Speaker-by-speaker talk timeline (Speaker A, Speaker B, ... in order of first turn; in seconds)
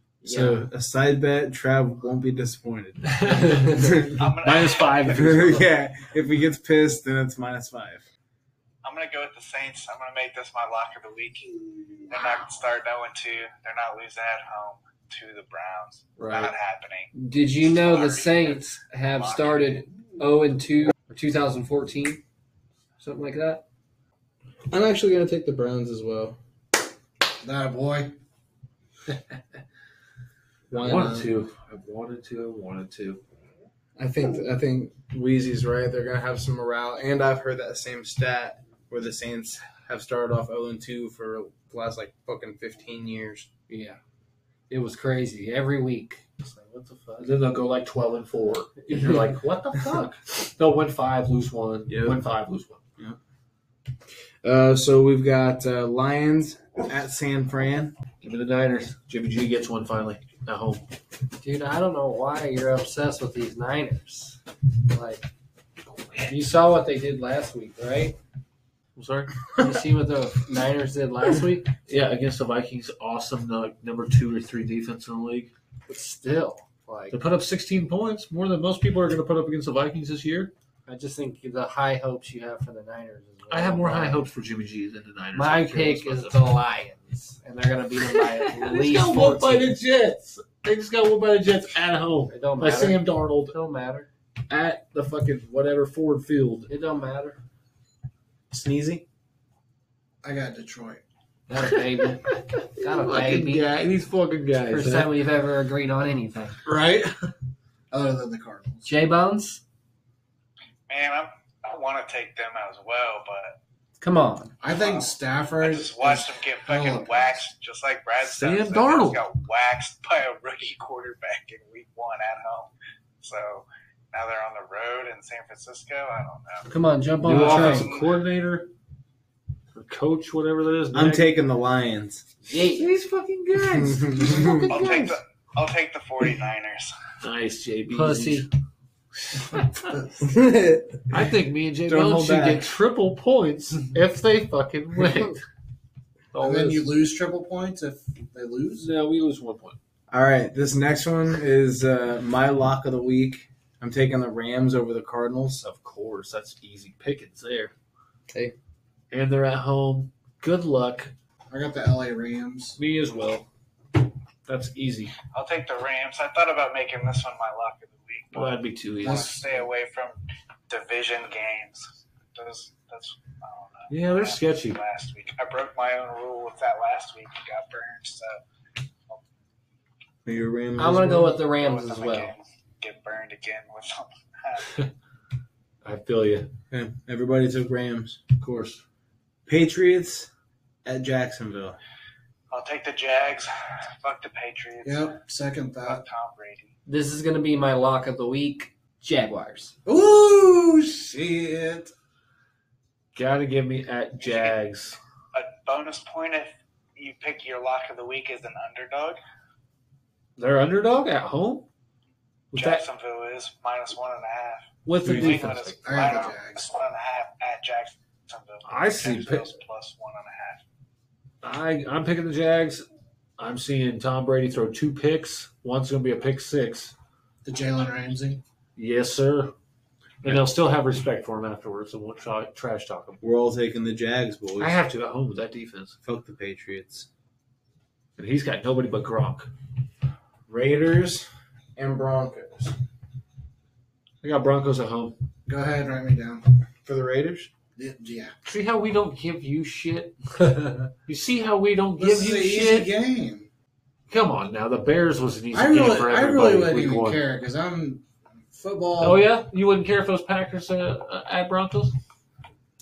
Speaker A: 0.2-0.7, 17.1-22.2, 23.0-23.6, 43.7-44.0, 44.7-47.4, 61.4-65.3, 66.3-68.2, 69.6-71.7, 75.9-77.2, 80.9-84.3, 85.3-89.8, 92.3-94.1, 96.7-97.4, 101.5-103.7, 104.7-106.6, 108.8-109.6, 114.0-114.5, 126.7-127.9, 132.4-132.9, 134.3-134.6, 137.9-138.5, 145.0-145.4, 180.8-182.3, 196.9-199.7, 215.1-215.4
Speaker B: 0.2-4.3, 5.1-8.1, 24.7-26.4, 30.7-31.3, 34.0-43.5, 51.9-52.2, 54.4-57.9, 98.5-99.0, 130.9-132.2, 133.6-134.8, 140.2-141.3, 141.9-142.7, 150.1-155.6, 180.2-181.4, 186.7-188.3, 189.5-190.3, 190.8-191.8, 233.2-234.8, 236.0-237.1, 240.5-242.8, 246.8-247.5
Speaker C: 3.0-5.7, 16.2-16.5, 30.7-33.2, 47.2-52.8, 58.2-60.9, 66.0-66.3, 69.0-69.3, 71.9-75.5, 77.1-80.5, 83.5-86.5, 88.1-93.5, 94.5-96.7, 101.8-105.1, 118.2-119.2, 127.2-128.7, 129.8-131.3, 132.7-135.2, 137.2-138.5, 139.3-139.9, 141.1-145.4, 146.3-146.9, 148.8-149.8, 155.6-157.7, 159.1-161.1, 162.8-163.5, 164.5-165.2, 168.3-169.4, 173.9-174.8, 185.8-186.5, 188.4-188.8, 203.2-205.0, 210.4-211.7, 212.5-212.8, 214.9-216.2, 218.7-219.5, 221.4-222.8, 223.4-226.9, 228.8-229.5, 230.2-233.2, 234.6-236.0, 238.2-239.5, 244.2-245.2, 248.4-252.9, 254.1-257.2, 259.0-261.9
Speaker D: 4.2-5.4, 8.8-11.5, 12.1-17.1, 17.6-19.9, 110.9-113.6, 114.7-128.2, 134.7-136.9, 165.3-170.2, 170.7-178.4, 181.4-184.8, 192.5-195.1, 195.8-196.7, 204.2-204.6, 205.3-209.2, 212.5-220.6
Speaker E: 27.4-28.2, 100.2-101.0, 106.7-107.3, 107.9-108.9, 114.6-117.3, 139.5-140.3, 146.4-148.9, 161.5-162.8, 169.0-169.5, 194.8-196.0, 199.9-201.9, 215.8-216.7, 227.4-228.4, 245.5-246.5, 247.8-248.3, 252.0-253.5, 255.5-259.2